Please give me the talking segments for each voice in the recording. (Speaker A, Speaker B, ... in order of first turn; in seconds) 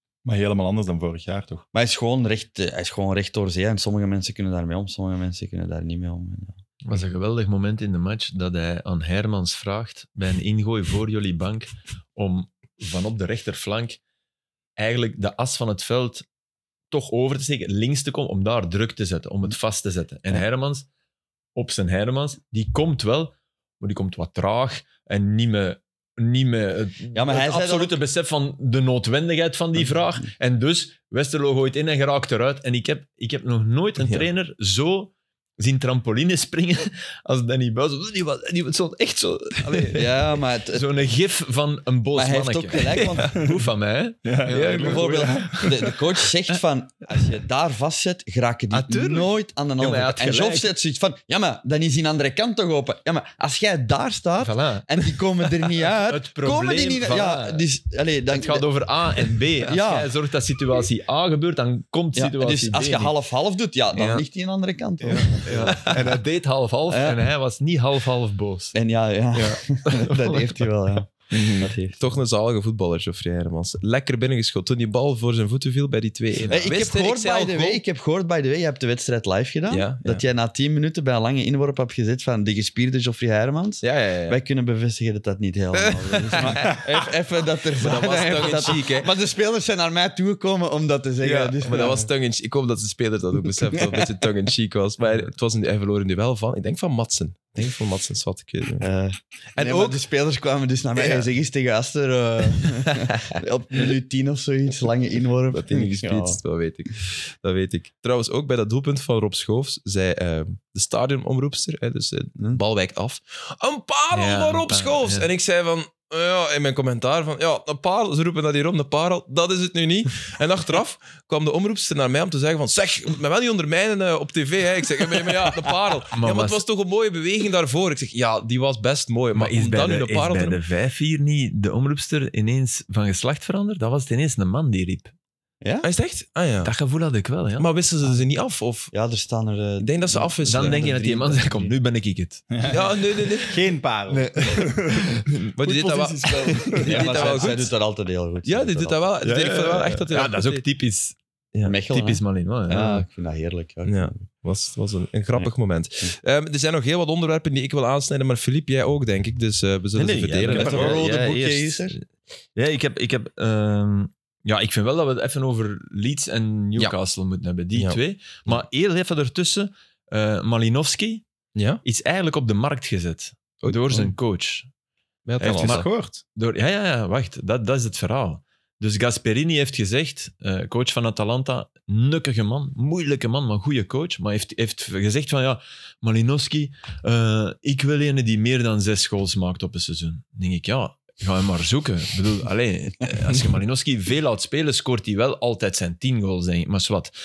Speaker A: 0.2-1.6, 44.2-45.9, 142.5-142.8, 143.4-147.4, 160.5-161.0, 175.4-176.2
Speaker B: 1.7-6.5, 27.1-28.0, 39.9-41.0, 42.1-43.5, 44.6-60.1, 62.1-66.0, 66.9-67.2, 68.7-72.0, 76.5-92.1, 93.5-94.3, 98.8-106.4, 135.6-135.9, 138.9-141.8, 146.8-149.1, 151.6-154.2, 155.3-156.1, 160.4-162.0
Speaker C: 6.8-14.0, 14.8-16.2, 16.9-20.9, 21.5-45.5, 48.7-50.7, 54.4-54.9, 56.1-57.6, 58.3-63.1, 65.1-68.7, 69.3-71.0, 114.1-115.3, 126.1-126.6, 129.3-135.1, 136.6-137.7, 140.4-142.7, 144.1-147.2, 149.2-151.2, 151.9-153.1, 159.9-161.1, 162.5-171.2, 171.8-174.7, 175.4-197.1
Speaker D: 63.9-64.2, 65.1-65.9, 71.3-77.8, 79.7-80.2, 83.8-84.4, 85.7-87.1, 87.7-89.1, 91.2-98.8, 99.5-100.0, 100.9-101.3, 103.0-103.2, 105.5-130.6, 135.8-136.7, 137.6-138.9, 139.8-140.9, 142.7-143.6, 145.6-147.7, 148.4-150.6, 153.8-162.0, 167.7-168.6, 171.5-171.8, 173.6-174.1, 175.2-175.9